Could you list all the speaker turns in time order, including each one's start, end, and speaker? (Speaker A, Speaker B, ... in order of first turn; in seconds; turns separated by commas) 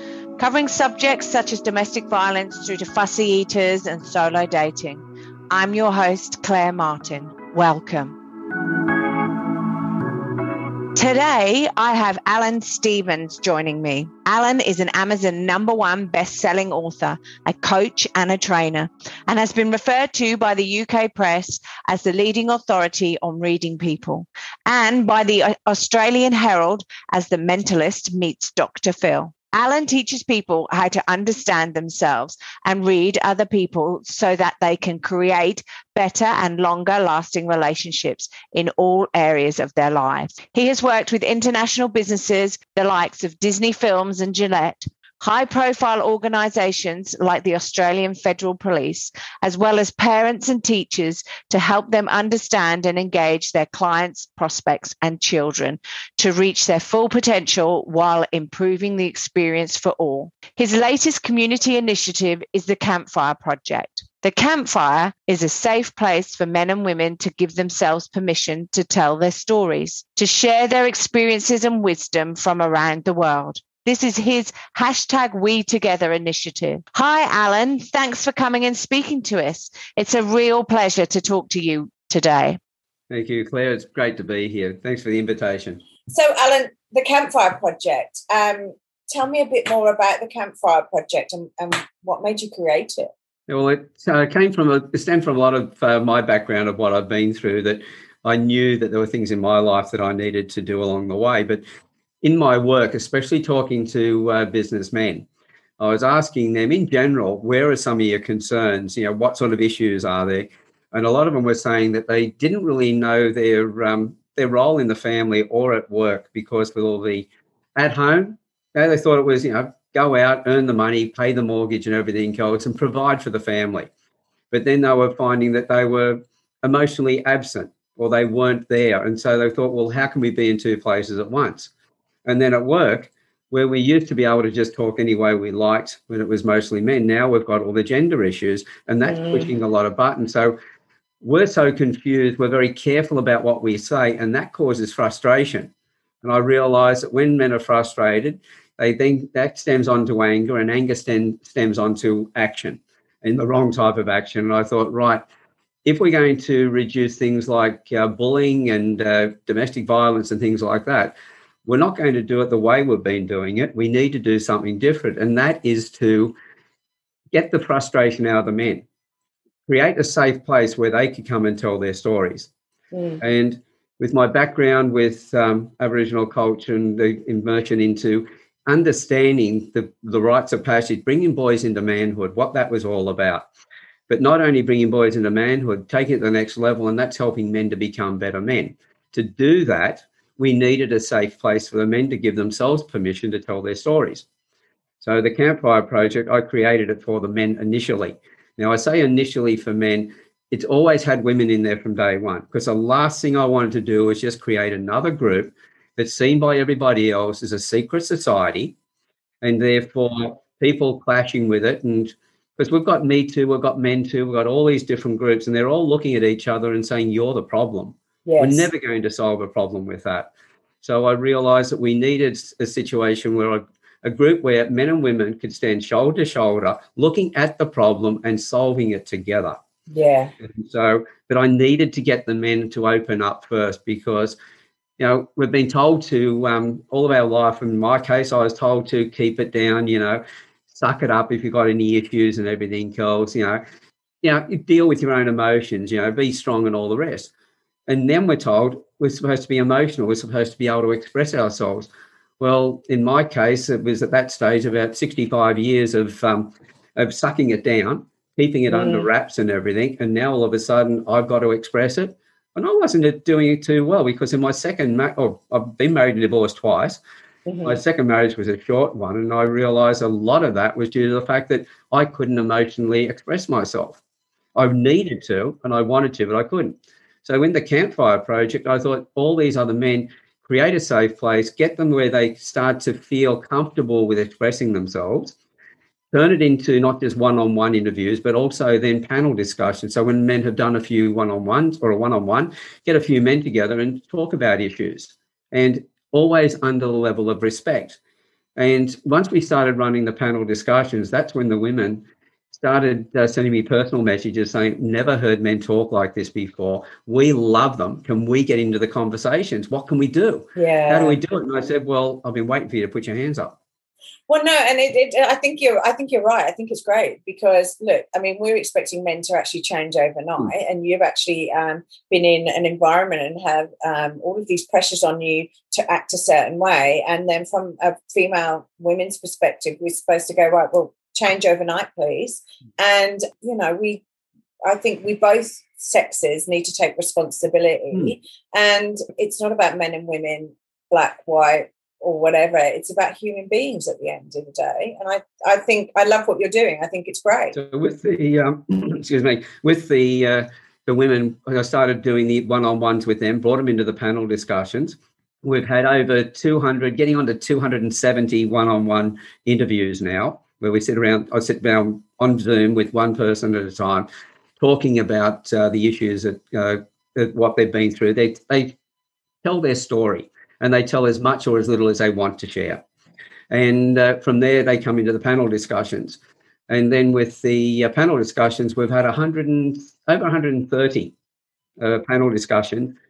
Speaker A: 0.4-8.2, Speaker A: 10.9-82.6, Speaker B: 83.1-85.8, Speaker C: 86.1-93.1, Speaker B: 93.5-101.6, Speaker B: 102.2-105.3, Speaker B: 105.8-123.9, Speaker B: 124.5-131.7, Speaker B: 132.2-140.5, Speaker C: 139.0-139.5, Speaker B: 141.2-145.7, Speaker B: 146.2-155.2, Speaker B: 155.8-161.1, Speaker B: 161.7-166.3, Speaker B: 167.3-168.8, Speaker B: 169.7-172.5, Speaker C: 172.9-173.2, Speaker B: 173.2-183.5, Speaker B: 184.1-194.2, Speaker B: 195.0-208.7, Speaker B: 209.4-220.3, Speaker C: 218.2-218.7, Speaker B: 220.8-229.6, Speaker C: 229.9-230.3, Speaker B: 230.4-234.3, Speaker B: 235.0-243.6, Speaker B: 244.2-247.3, Speaker B: 247.9-251.9, Speaker B: 252.4-267.0, Speaker C: 258.7-259.1, Speaker C: 267.4-267.8, Speaker B: 267.6-274.0, Speaker B: 274.5-285.4, Speaker B: 286.1-298.0, Speaker B: 298.6-313.6, Speaker C: 310.6-311.2, Speaker C: 314.3-334.0, Speaker C: 334.6-347.6, Speaker B: 347.5-364.1, Speaker B: 364.6-368.8, Speaker B: 369.4-372.8, Speaker B: 373.5-381.1, Speaker B: 381.8-382.9